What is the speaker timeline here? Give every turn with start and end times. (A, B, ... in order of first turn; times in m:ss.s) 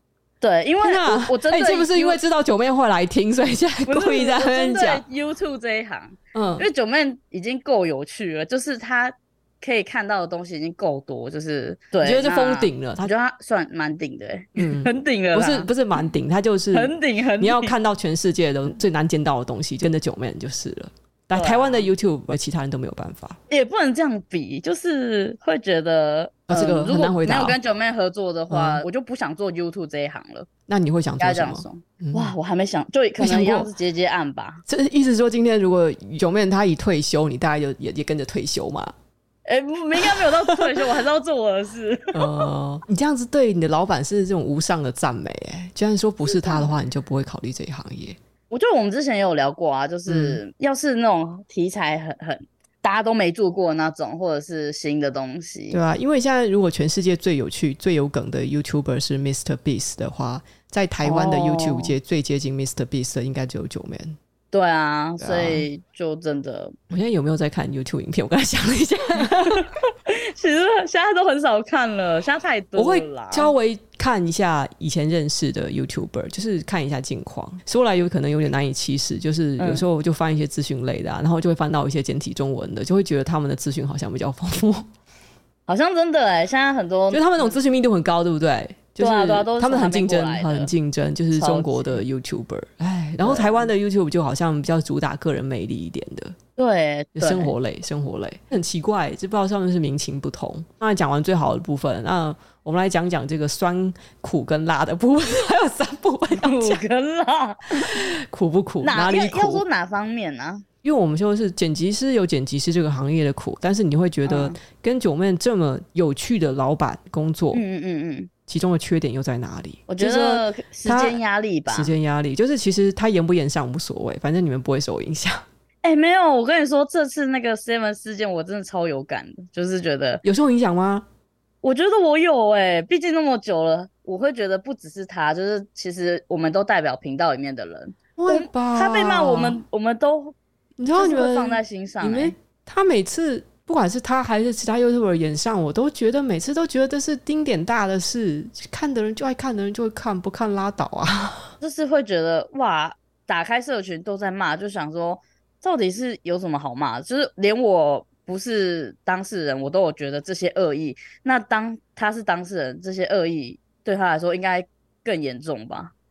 0:00.4-0:02.2 A
0:00.8-0:05.0 B
0:03.8-0:15.7 A
0:06.3-0:06.6 B
0:12.0-0:13.1 B
0:14.6-0:23.4 B
0:16.7-0:17.7 A
0:21.3-0:21.9 A
0:23.5-0:30.5 A
0:26.5-0:27.6 B
0:28.5-0:28.8 B
0:30.7-0:32.3 B
0:31.2-0:34.6 A
0:33.2-0:33.7 B
0:34.7-0:38.9 B
0:39.4-0:42.4 A
0:40.0-0:40.8 B
0:42.1-0:48.2 B
0:46.2-0:46.7 A
0:48.5-0:55.8 A
0:50.1-0:50.4 B
0:55.7-1:04.2 B
1:01.0-1:01.9 A
1:04.5-1:06.8 A
1:05.2-1:05.7 B
1:06.9-1:09.7 B
1:09.4-1:13.5 A
1:12.8-1:24.9 B
1:19.6-1:19.8 A
1:25.7-1:27.5 A
1:27.1-1:36.4 B
1:29.0-1:30.7 A
1:31.3-1:32.0 A
1:33.2-1:33.7 A
1:36.6-1:37.5 A
1:37.2-1:46.8 B
1:46.4-1:48.0 A
1:47.8-1:49.6 B
1:48.8-1:50.6 A
1:50.8-1:57.6 B
1:54.2-1:54.6 A
1:57.5-1:58.3 A
1:58.5-2:05.4 B
1:59.9-2:01.9 A
2:05.8-2:10.2 A
2:10.2-2:11.1 B
2:11.6-2:20.4 A
2:18.2-2:19.6 B
2:20.8-2:31.5 B
2:21.0-2:22.3 A
2:31.6-2:45.9 A